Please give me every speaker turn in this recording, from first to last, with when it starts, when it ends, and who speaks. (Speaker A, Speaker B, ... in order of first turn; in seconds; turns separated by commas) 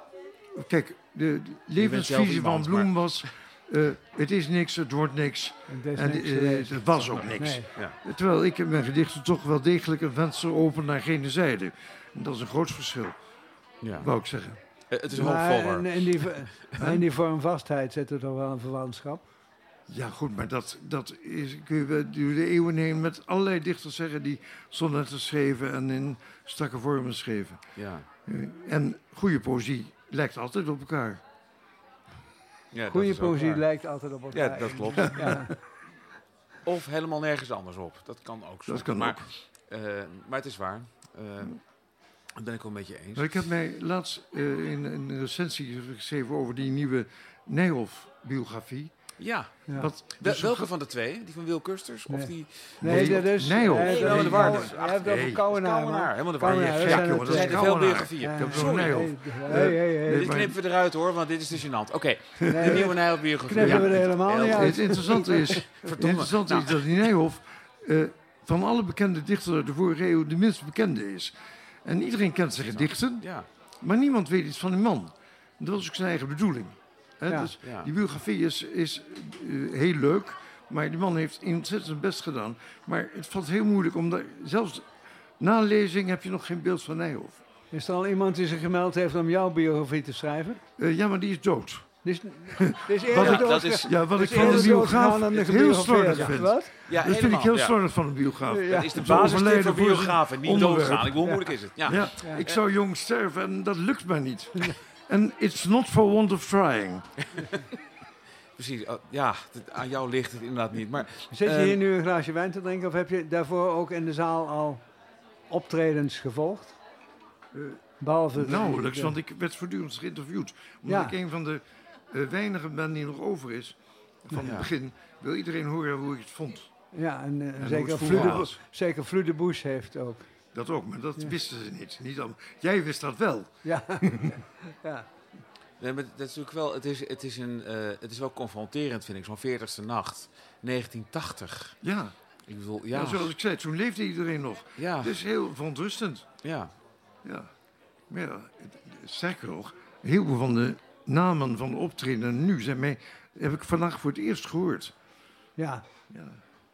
Speaker A: 0.4-13.2, Speaker B: 1.8-3.2, Speaker C: 5.7-7.7, Speaker B: 7.0-8.0, Speaker B: 13.8-14.1, Speaker A: 14.0-14.6, Speaker B: 14.9-16.6, Speaker C: 15.1-19.2, Speaker A: 16.8-17.1, Speaker A: 19.9-27.6, Speaker B: 27.8-28.1, Speaker A: 28.2-31.2, Speaker B: 32.7-35.5, Speaker C: 32.9-35.5, Speaker B: 36.6-41.6, Speaker A: 38.7-39.3, Speaker B: 42.4-43.4, Speaker A: 43.1-48.9, Speaker B: 49.2-67.1, Speaker A: 49.7-50.7, Speaker C: 52.1-60.3, Speaker A: 52.8-55.4, Speaker A: 56.5-60.6, Speaker C: 62.5-65.6, Speaker A: 62.5-62.8, Speaker A: 63.6-71.3, Speaker A: 71.8-84.9, Speaker B: 72.7-73.5, Speaker C: 77.3-77.5, Speaker B: 77.6-77.9, Speaker A: 85.4-87.4, Speaker C: 87.7-90.6, Speaker A: 90.8-107.1, Speaker C: 92.0-96.7, Speaker B: 93.1-95.0, Speaker B: 96.1-102.6, Speaker C: 98.5-98.9, Speaker C: 101.2-101.5, Speaker B: 107.3-107.6, Speaker B: 108.6-111.8, Speaker C: 111.3-114.8, Speaker C: 115.5-116.8, Speaker A: 117.5-117.8, Speaker C: 118.0-119.2, Speaker A: 118.3-126.7, Speaker C: 120.9-121.2, Speaker B: 124.4-124.7, Speaker C: 126.9-130.3, Speaker A: 127.6-128.6, Speaker B: 128.1-128.4, Speaker A: 130.5-134.3, Speaker C: 133.6-135.1, Speaker B: 135.8-141.8, Speaker A: 141.8-142.2, Speaker B: 142.5-143.3, Speaker A: 142.9-146.3, Speaker B: 144.8-145.2, Speaker B: 146.4-146.7, Speaker A: 147.2-147.5, Speaker A: 148.1-154.9, Speaker C: 155.6-155.8, Speaker A: 156.1-156.4